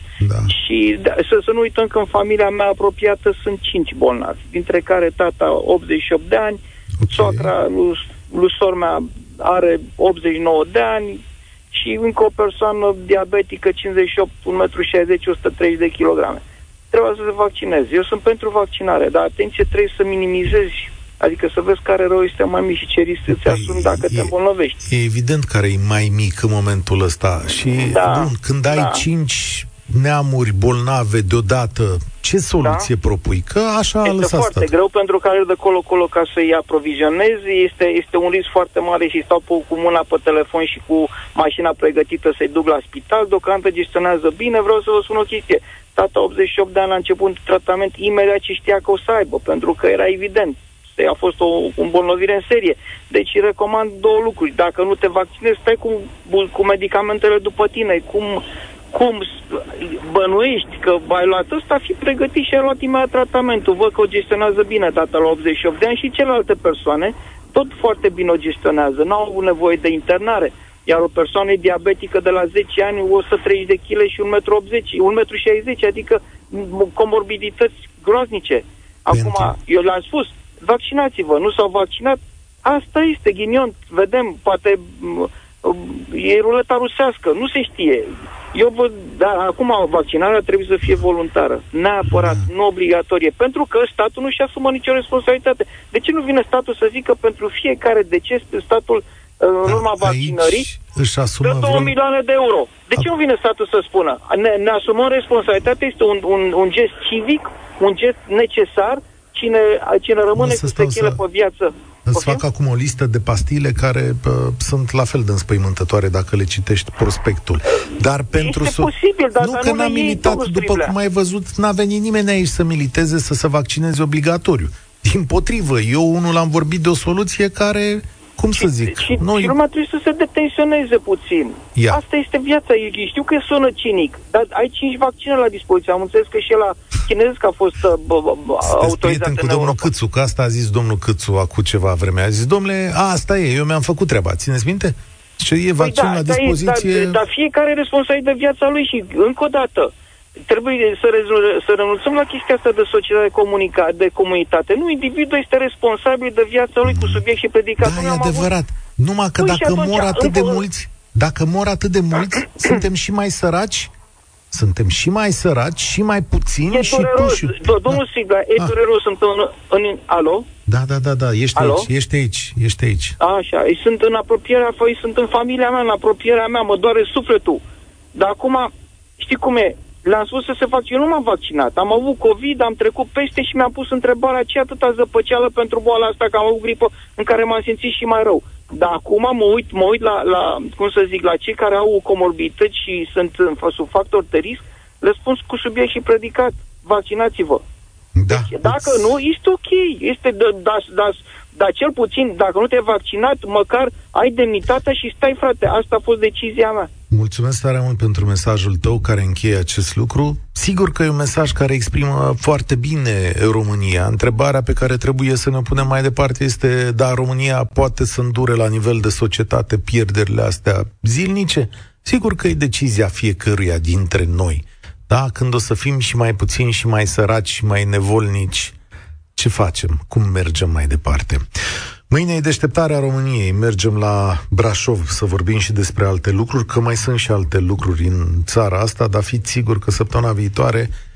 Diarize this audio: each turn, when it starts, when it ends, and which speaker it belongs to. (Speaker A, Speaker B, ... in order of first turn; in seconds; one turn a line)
Speaker A: 0.2-0.5
Speaker B: 0.5-24.8
Speaker A: 7.0-7.5
Speaker A: 23.3-34.7
Speaker B: 27.8-29.0
Speaker B: 32.6-32.9
Speaker B: 34.0-100.7
Speaker A: 79.1-79.5
Speaker A: 92.1-92.4
Speaker A: 99.7-101.9
Speaker B: 101.4-112.4
Speaker A: 110.3-111.2
Speaker A: 112.1-129.5
Speaker B: 118.3-120.9
Speaker B: 128.5-139.9
Speaker A: 138.7-147.2
Speaker B: 145.8-149.9
Speaker B: 150.5-158.5
Speaker A: 156.9-157.2
Speaker A: 157.8-163.9
Speaker B: 159.4-160.6
Speaker A: 164.5-168.0
Speaker B: 166.7-170.5
Speaker A: 170.7-173.2
Speaker B: 171.6-171.9
Speaker B: 173.2-177.6
Speaker B: 178.2-197.6
Speaker A: 198.2-199.1
Speaker B: 198.3-206.9
Speaker A: 207.1-228.7
Speaker A: 229.3-231.4
Speaker A: 232.1-240.9